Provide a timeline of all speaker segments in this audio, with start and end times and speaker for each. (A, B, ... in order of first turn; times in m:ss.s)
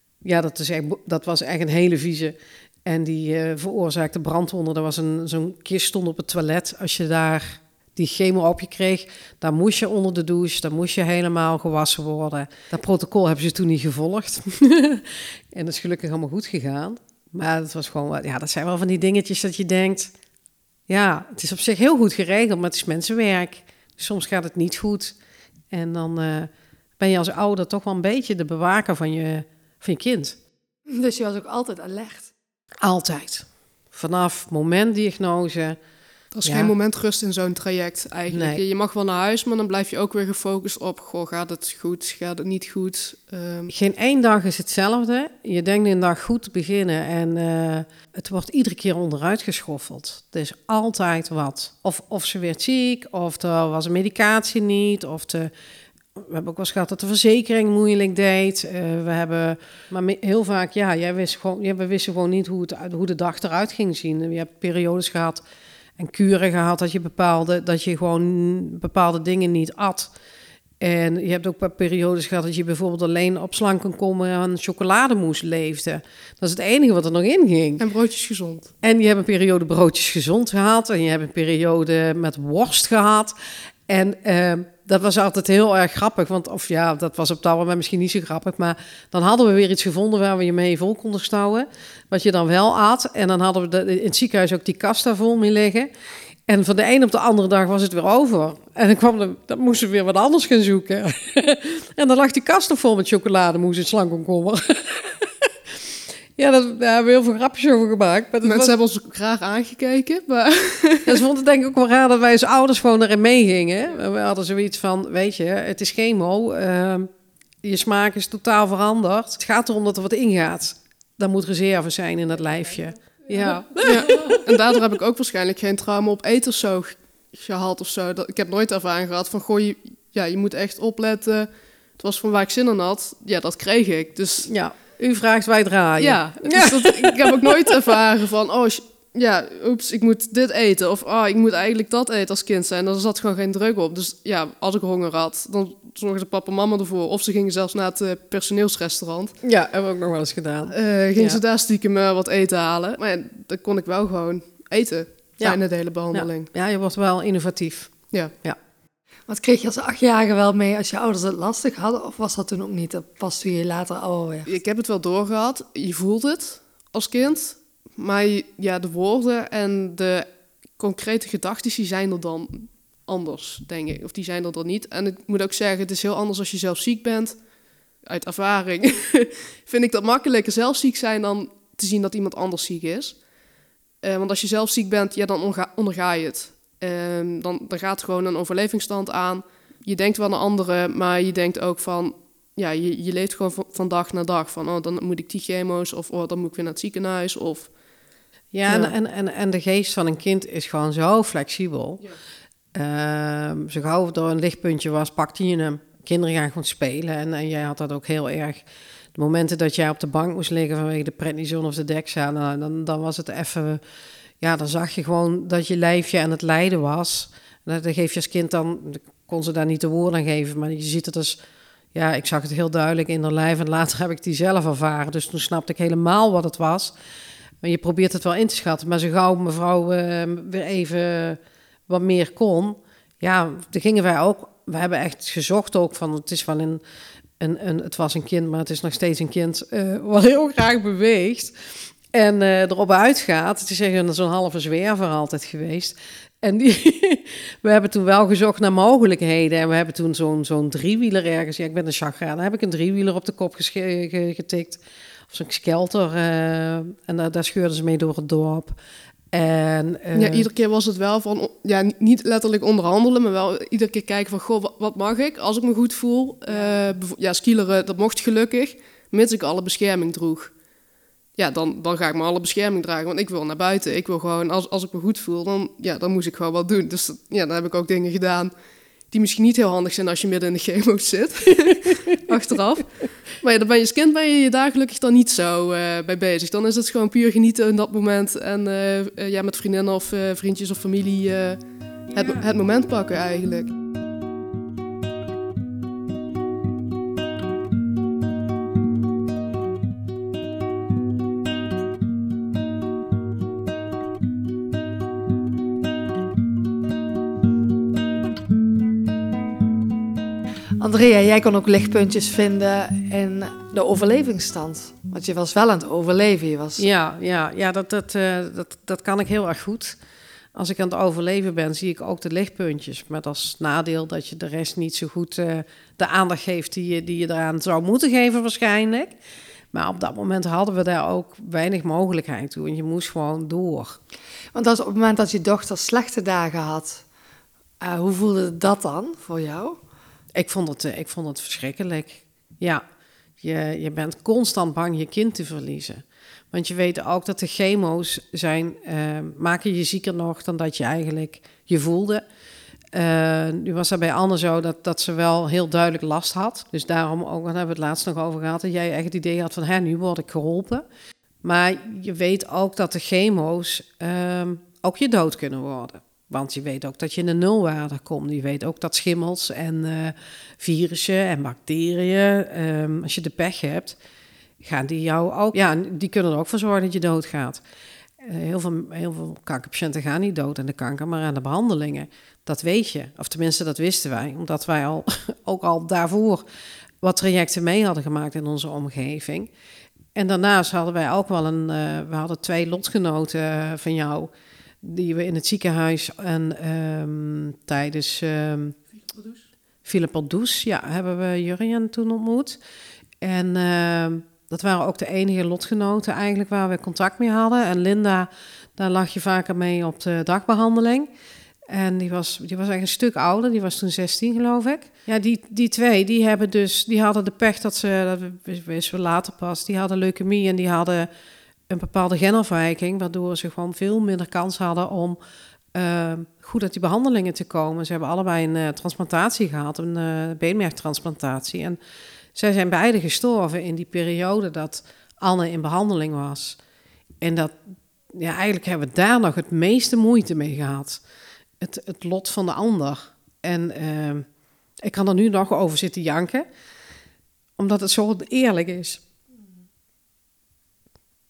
0:00.2-0:20.1 A
0:20.9-0:25.2 A
0:25.7-0:30.4 A
0:30.9-0:32.3 B
0:32.8-0:35.8 A
0:36.3-0:43.7 C
0:36.4-0:36.7 A
0:38.3-0:38.6 A
0:43.7-0:55.5 A
0:56.1-1:05.4 A
1:06.0-1:10.1 A
1:10.8-1:17.8 A
1:17.8-1:18.7 C
1:18.8-1:23.3 A
1:23.9-1:35.9 A
1:36.5-1:45.5 A
1:46.4-1:48.7 A
1:48.4-1:51.2 C
1:51.0-1:57.1 A
1:57.6-2:04.5 A
2:03.8-2:14.5 C
2:14.4-2:17.9 A
2:16.0-2:29.3 C
2:29.4-2:31.4 A
2:30.7-2:36.5 C
2:36.1-2:38.6 A
2:39.3-2:44.5 B
2:44.4-2:57.4 C
2:58.0-3:03.2 C
3:04.0-3:17.7 C
3:18.5-3:22.0 A
3:18.6-3:18.9 C
3:22.7-3:28.6 A
3:29.1-3:33.8 A
3:34.4-3:41.4 A
3:41.9-3:46.9 A
3:47.6-3:56.8 A
3:57.4-4:01.5 A
4:02.1-4:18.8 A
4:19.3-4:20.5 A
4:20.1-4:30.5 C
4:31.4-4:38.5 C
4:39.1-4:53.7 C
4:52.1-4:52.5 A
5:10.8-5:16.9 B
5:16.8-5:20.0 A
5:20.5-5:29.2 A
5:29.7-5:34.0 A
5:34.5-5:37.0 B
5:37.8-5:39.8 B
5:40.3-5:42.8 A
5:43.4-5:52.2 A
5:52.9-6:00.8 A
6:01.4-6:14.0 A
6:14.6-6:17.6 A
6:18.2-6:26.4 A
6:27.0-6:29.5 A
6:30.1-6:34.3 A
6:34.8-6:38.8 A
6:39.8-6:42.6 A
6:43.2-6:51.1 A
6:51.7-7:01.1 A
7:01.7-7:05.2 A
7:05.7-7:11.8 A
7:12.3-7:16.6 A
7:17.2-7:17.6 A
7:18.1-7:21.0 A
7:21.6-7:24.3 A
7:24.8-7:26.4 A
7:27.6-7:29.0 A